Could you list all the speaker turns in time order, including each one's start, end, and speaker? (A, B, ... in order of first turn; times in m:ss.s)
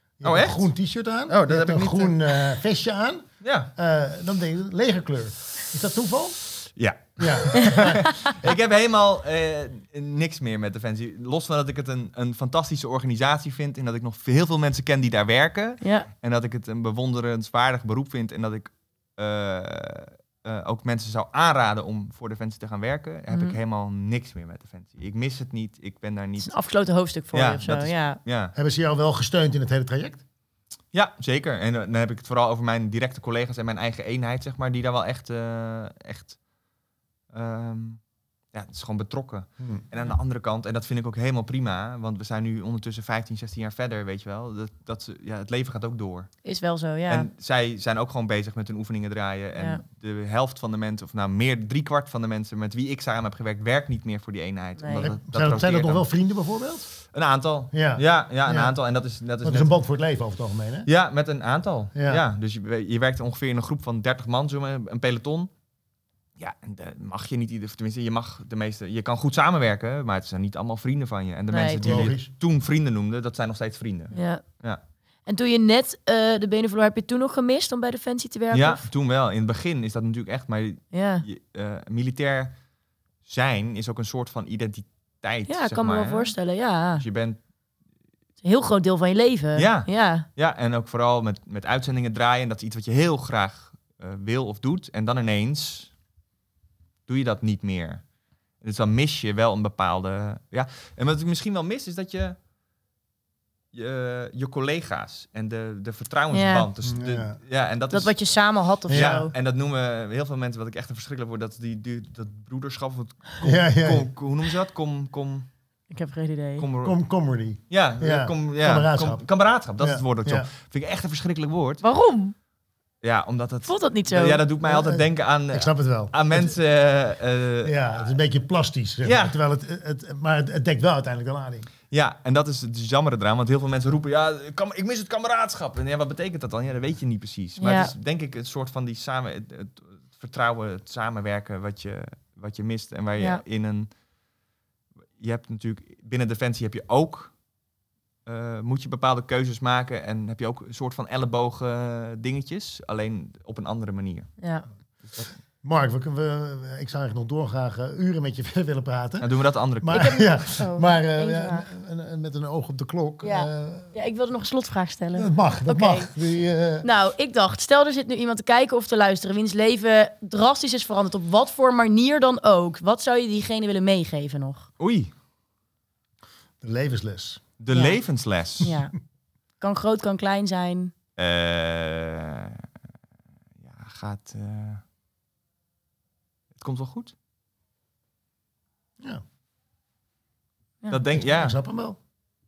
0:00.2-0:06.4 A
0:00.2-0:00.7 B
0:01.3-0:02.2 B
0:03.4-0:03.7 B
0:06.7-0:26.5 B
0:07.2-0:08.3 A
0:15.8-0:16.1 C
0:23.3-0:23.6 C
0:26.4-0:28.2 C
0:27.3-0:28.5 B
0:28.5-0:30.2 A
0:30.9-0:36.4 B
0:37.3-0:38.0 B
0:38.5-0:46.3 B
0:39.6-0:39.8 A
0:46.4-0:47.3 C
0:47.1-0:56.0 B
0:49.6-0:49.8 C
0:54.8-0:55.1 C
0:55.0-0:56.9 A
0:57.0-0:59.8 B
0:57.7-0:58.8 A
0:59.4-1:00.9 A
1:00.8-1:05.5 B
1:01.9-1:02.2 A
1:06.4-1:14.8 B
1:11.5-1:12.1 C
1:11.8-1:12.3 A
1:14.1-1:14.4 C
1:15.2-1:18.8 C
1:18.5-1:22.6 B
1:20.9-1:21.2 C
1:23.2-1:26.4 B
1:25.5-1:27.0 C
1:27.0-1:27.4 B
1:28.4-1:30.2 C
1:29.5-1:35.9 B
1:37.1-1:38.0 B
1:38.6-1:42.4 B
1:43.7-1:48.3 B
1:46.3-1:46.7 C
1:46.8-1:47.4 A
1:47.9-1:49.3 C
1:48.9-1:49.2 A
1:48.9-1:55.5 B
1:53.4-1:54.1 A
1:55.9-1:56.7 C
1:56.6-1:57.0 B
1:56.8-2:00.5 A
1:57.7-2:01.8 B
2:01.8-2:02.3 C
2:03.0-2:07.8 B
2:03.6-2:04.4 C
2:04.6-2:06.6 A
2:07.6-2:11.7 A
2:09.0-2:09.4 B
2:11.9-2:23.9 B
2:17.6-2:17.9 C
2:25.2-2:27.4 B
2:28.2-2:34.4 B
2:34.4-2:34.7 C
2:35.0-2:35.3 B
2:35.6-2:43.9 A
2:39.2-2:40.0 B
2:39.9-2:41.6 C
2:43.2-2:46.1 C
2:45.1-2:46.8 A
2:46.8-2:54.7 C
2:54.8-2:55.1 B
2:56.6-2:57.4 A
2:57.6-2:58.7 B
2:57.7-2:59.0 C
2:59.6-3:00.9 C
3:01.2-3:02.6 B
3:03.6-3:04.8 B
3:06.5-3:07.1 B
3:10.9-3:11.6 B
3:11.1-3:12.0 A